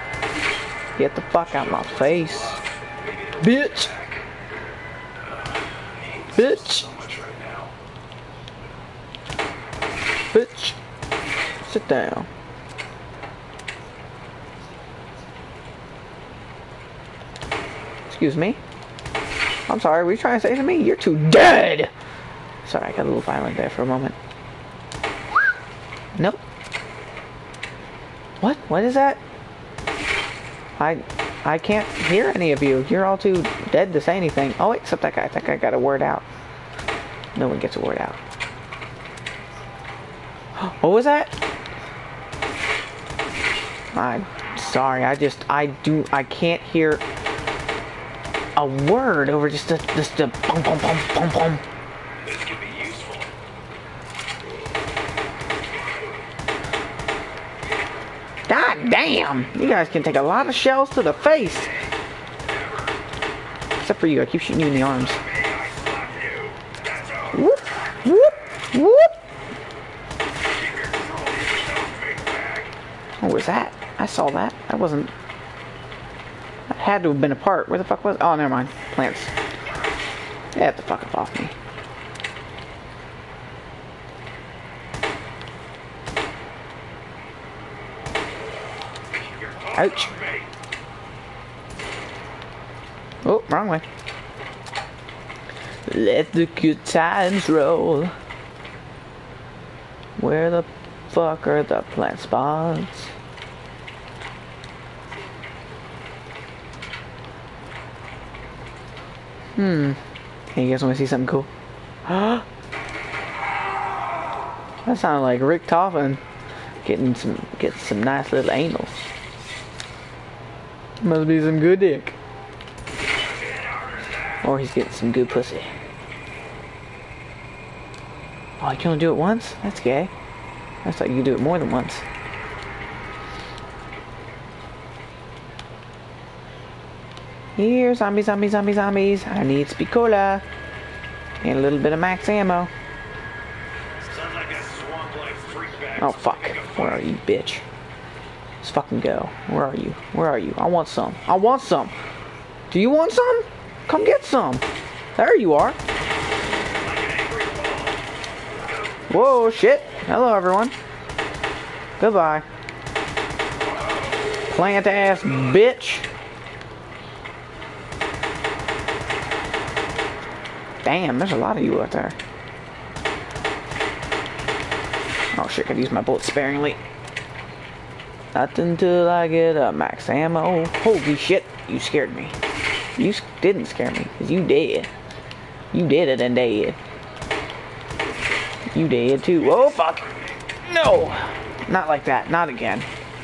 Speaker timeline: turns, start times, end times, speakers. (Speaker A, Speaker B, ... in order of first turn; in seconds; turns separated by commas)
Speaker A: 0.9-2.6, Speaker B: 1.4-4.2, Speaker A: 3.4-3.9, Speaker B: 5.2-7.7, Speaker A: 6.3-6.9, Speaker A: 10.3-10.8, Speaker A: 11.6-12.3, Speaker A: 18.1-18.6, Speaker A: 19.7-21.9, Speaker A: 22.6-24.1, Speaker A: 26.1-26.4, Speaker A: 28.4-29.2, Speaker A: 30.8-36.2, Speaker A: 37.3-38.2, Speaker A: 40.6-41.3, Speaker A: 43.9-47.0, Speaker A: 48.5-51.6, Speaker B: 52.2-53.3, Speaker A: 58.5-61.7, Speaker B: 61.6-61.9, Speaker B: 62.4-63.0, Speaker A: 63.8-65.2, Speaker B: 65.2-67.4, Speaker A: 67.3-69.2, Speaker B: 70.5-72.7, Speaker A: 73.2-75.1, Speaker A: 76.7-79.3, Speaker A: 80.5-81.5, Speaker B: 89.2-90.5, Speaker A: 89.8-90.1, Speaker A: 93.2-93.8, Speaker A: 95.8-98.1, Speaker A: 100.2-103.1, Speaker A: 109.5-110.0, Speaker A: 110.5-111.5, Speaker A: 112.0-112.4, Speaker A: 114.8-116.2, Speaker A: 116.8-119.0, Speaker A: 121.0-122.1, Speaker B: 123.2-124.4, Speaker A: 124.4-125.7, Speaker A: 128.6-130.1, Speaker A: 130.8-132.0, Speaker A: 137.6-140.4, Speaker A: 141.4-142.7, Speaker B: 144.1-147.0, Speaker A: 146.0-147.6, Speaker A: 148.6-151.9, Speaker A: 152.7-154.6, Speaker A: 155.2-155.8, Speaker B: 156.7-159.3, Speaker A: 159.1-160.7, Speaker A: 162.0-162.4, Speaker B: 163.7-164.1, Speaker A: 164.5-166.1, Speaker A: 170.8-172.2, Speaker A: 175.3-176.8, Speaker A: 178.3-182.3, Speaker A: 183.0-184.9, Speaker A: 185.7-186.8, Speaker A: 188.7-190.0, Speaker B: 189.3-190.1, Speaker A: 190.6-192.9